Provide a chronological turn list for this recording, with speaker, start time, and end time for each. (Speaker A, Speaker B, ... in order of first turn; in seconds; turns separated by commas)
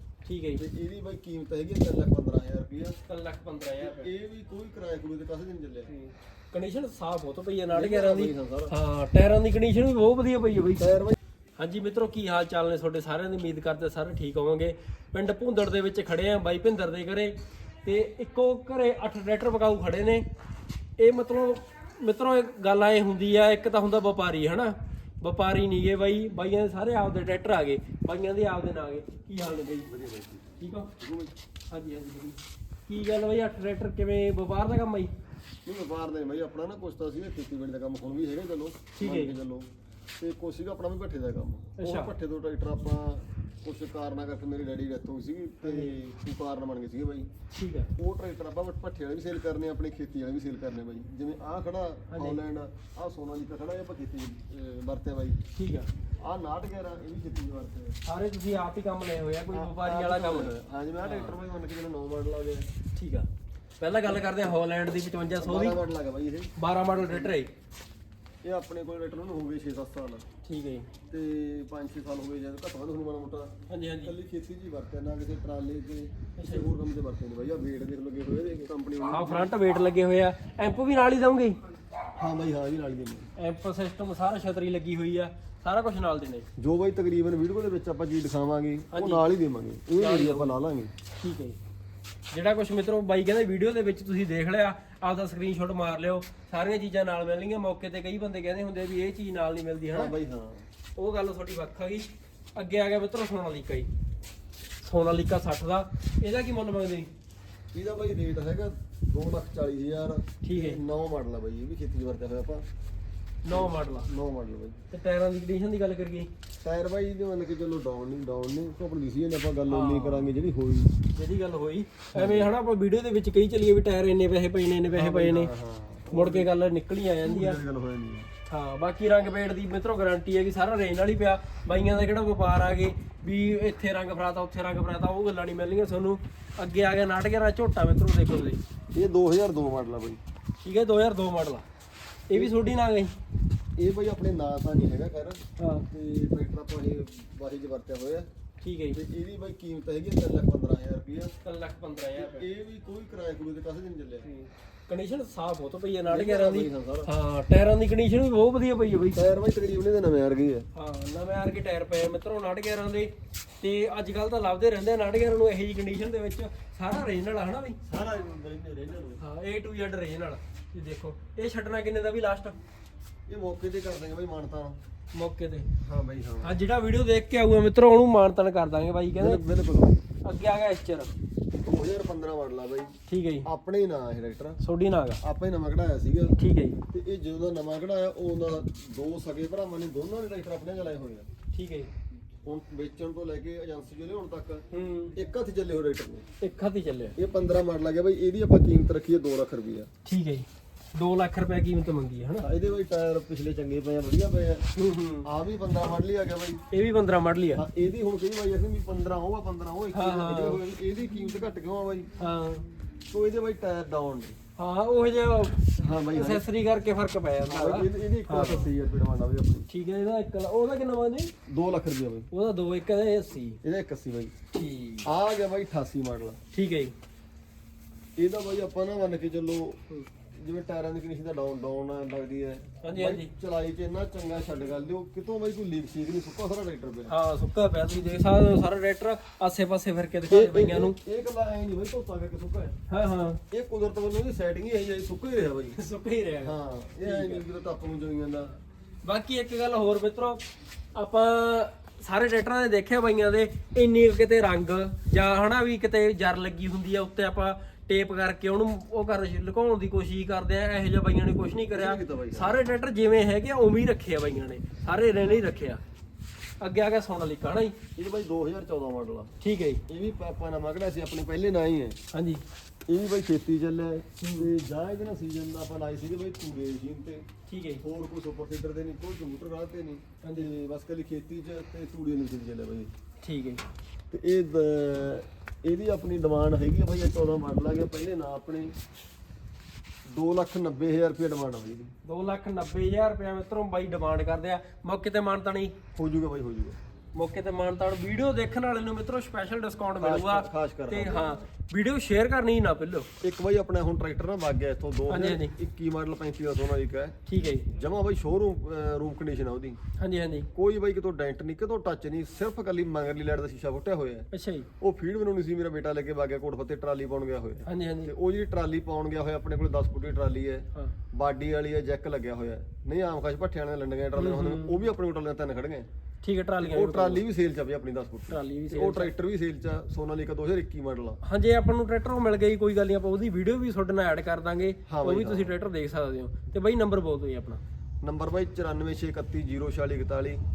Speaker A: 0.2-0.6, Speaker B: 0.6-3.0, Speaker A: 3.1-4.1, Speaker B: 3.8-5.9, Speaker A: 5.9-10.9, Speaker B: 7.7-8.8, Speaker B: 10.8-11.2, Speaker A: 11.6-20.2, Speaker A: 21.0-29.9, Speaker B: 29.9-31.3, Speaker A: 30.6-30.9, Speaker A: 31.7-35.1, Speaker B: 35.7-47.3, Speaker A: 39.0-39.4, Speaker A: 41.8-42.1, Speaker A: 45.6-45.9, Speaker A: 47.5-47.9, Speaker B: 48.0-55.4, Speaker A: 52.1-52.4, Speaker A: 55.5-55.9, Speaker B: 56.2-58.0, Speaker A: 58.0-61.4, Speaker B: 59.5-62.7, Speaker A: 63.0-63.3, Speaker A: 63.8-65.8, Speaker B: 65.4-67.3, Speaker A: 66.6-67.5, Speaker B: 68.4-70.2, Speaker A: 70.4-70.9, Speaker B: 71.1-79.5, Speaker A: 73.7-74.1, Speaker A: 76.4-76.7, Speaker A: 79.1-81.6, Speaker B: 82.2-83.3, Speaker A: 83.4-86.5, Speaker B: 86.6-90.9, Speaker A: 88.9-89.2, Speaker A: 90.0-90.6, Speaker A: 91.2-91.6, Speaker A: 92.3-100.1, Speaker B: 99.9-100.7, Speaker A: 101.0-103.9, Speaker A: 104.8-107.1, Speaker B: 107.7-112.7, Speaker A: 110.4-110.8, Speaker A: 113.4-114.1, Speaker B: 113.5-114.8, Speaker A: 114.9-116.3, Speaker B: 116.6-121.0, Speaker A: 119.7-120.3, Speaker A: 121.1-125.5, Speaker B: 122.2-122.5, Speaker B: 124.9-126.5, Speaker A: 126.1-127.6, Speaker B: 127.2-128.3, Speaker A: 128.5-138.6, Speaker B: 138.9-140.2, Speaker A: 140.6-141.7, Speaker A: 142.3-143.2, Speaker B: 143.8-148.3, Speaker A: 145.6-145.9, Speaker A: 148.6-149.0, Speaker B: 148.9-151.3, Speaker A: 151.4-152.5, Speaker B: 152.2-154.3, Speaker A: 154.2-159.2, Speaker B: 156.1-157.1, Speaker B: 159.1-160.7, Speaker A: 160.7-167.8, Speaker B: 167.8-169.2, Speaker A: 169.2-172.6, Speaker B: 173.3-174.8, Speaker A: 175.1-175.7, Speaker B: 175.8-176.6, Speaker A: 176.4-179.4, Speaker B: 179.2-180.0, Speaker A: 180.2-181.1, Speaker B: 181.6-184.6, Speaker A: 183.1-183.5, Speaker A: 184.6-185.2, Speaker B: 185.2-186.4, Speaker A: 186.4-186.8, Speaker B: 186.9-191.3, Speaker A: 191.5-191.9, Speaker B: 192.4-196.2, Speaker A: 194.7-195.2, Speaker A: 196.4-197.2, Speaker B: 197.2-199.9, Speaker A: 200.1-202.5, Speaker B: 202.4-204.6, Speaker A: 204.8-205.3, Speaker B: 205.2-206.6, Speaker A: 206.7-207.6, Speaker B: 207.6-212.1, Speaker A: 209.9-210.6, Speaker A: 212.2-212.7, Speaker B: 213.1-214.4, Speaker A: 214.6-218.7, Speaker B: 215.8-216.4, Speaker B: 217.5-219.7, Speaker A: 219.7-221.3, Speaker B: 221.5-222.3, Speaker A: 222.3-223.6, Speaker B: 223.6-224.3, Speaker A: 224.5-225.1, Speaker B: 225.0-226.4, Speaker A: 226.5-226.9, Speaker B: 228.2-229.8, Speaker B: 230.3-237.1, Speaker A: 232.8-233.3, Speaker A: 237.1-241.0, Speaker B: 240.3-242.8, Speaker A: 242.9-243.4, Speaker B: 243.5-245.8, Speaker A: 245.7-247.4, Speaker B: 246.4-248.6, Speaker A: 249.0-265.8, Speaker B: 261.7-262.6, Speaker A: 266.6-267.8, Speaker B: 268.0-269.3, Speaker A: 269.4-269.8, Speaker B: 269.9-272.0, Speaker A: 272.1-272.4, Speaker B: 272.9-277.3, Speaker A: 274.2-274.5, Speaker A: 277.5-277.8, Speaker B: 277.8-282.9, Speaker A: 280.2-280.5, Speaker A: 283.2-283.6, Speaker B: 284.1-288.7, Speaker B: 290.1-291.9, Speaker A: 292.0-295.8, Speaker B: 295.9-296.8, Speaker A: 297.1-303.1, Speaker B: 300.0-301.4, Speaker B: 303.2-309.8, Speaker A: 305.1-305.6, Speaker A: 307.3-307.7, Speaker A: 310.0-310.5, Speaker B: 310.6-314.3, Speaker A: 314.3-314.7, Speaker B: 314.8-325.9, Speaker A: 317.7-318.1, Speaker A: 324.2-324.8, Speaker A: 326.2-327.2, Speaker B: 326.6-331.2, Speaker A: 328.3-329.1, Speaker A: 331.2-337.6, Speaker B: 334.9-335.6, Speaker B: 338.0-340.4